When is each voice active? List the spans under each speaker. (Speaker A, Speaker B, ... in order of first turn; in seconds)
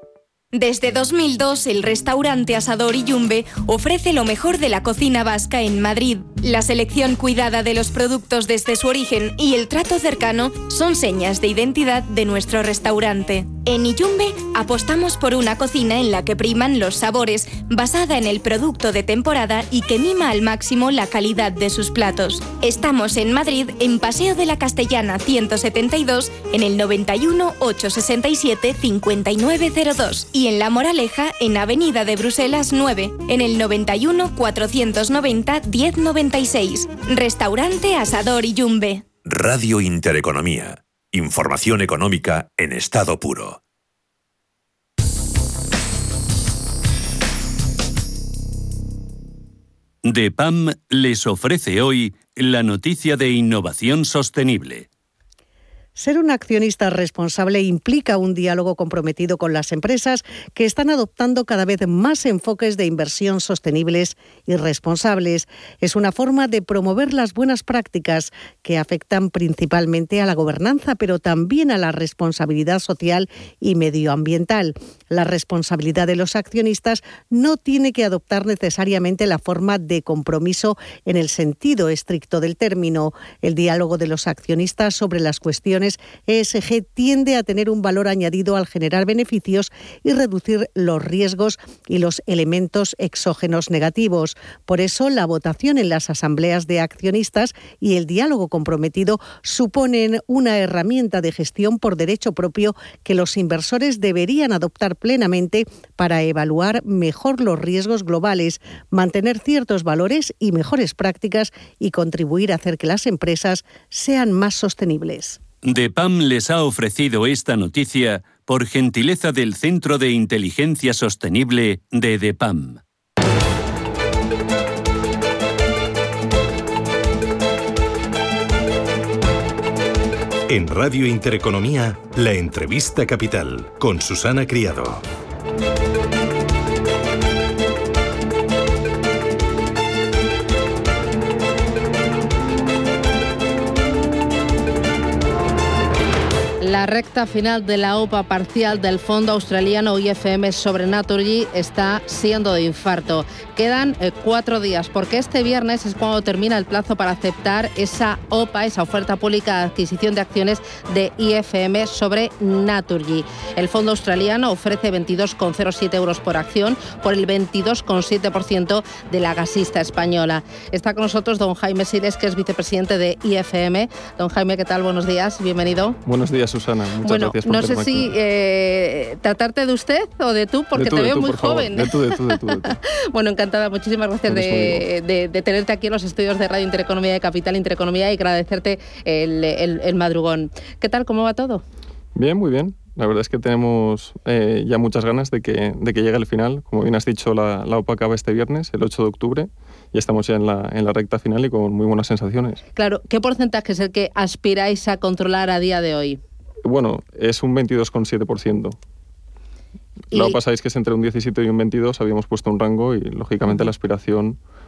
Speaker A: 0.5-39.0
Speaker B: 39.2-43.6
Speaker C: 50.0-54.9, 115.6-122.8
Speaker D: 56.0-115.4
Speaker E: 130.5-135.0
Speaker F: 146.6-176.0, 177.0-191.6, 202.8-206.2
Speaker G: 176.1-178.1, 180.7-182.8, 184.3-184.8, 192.1-202.6, 206.6-208.8, 210.1-214.4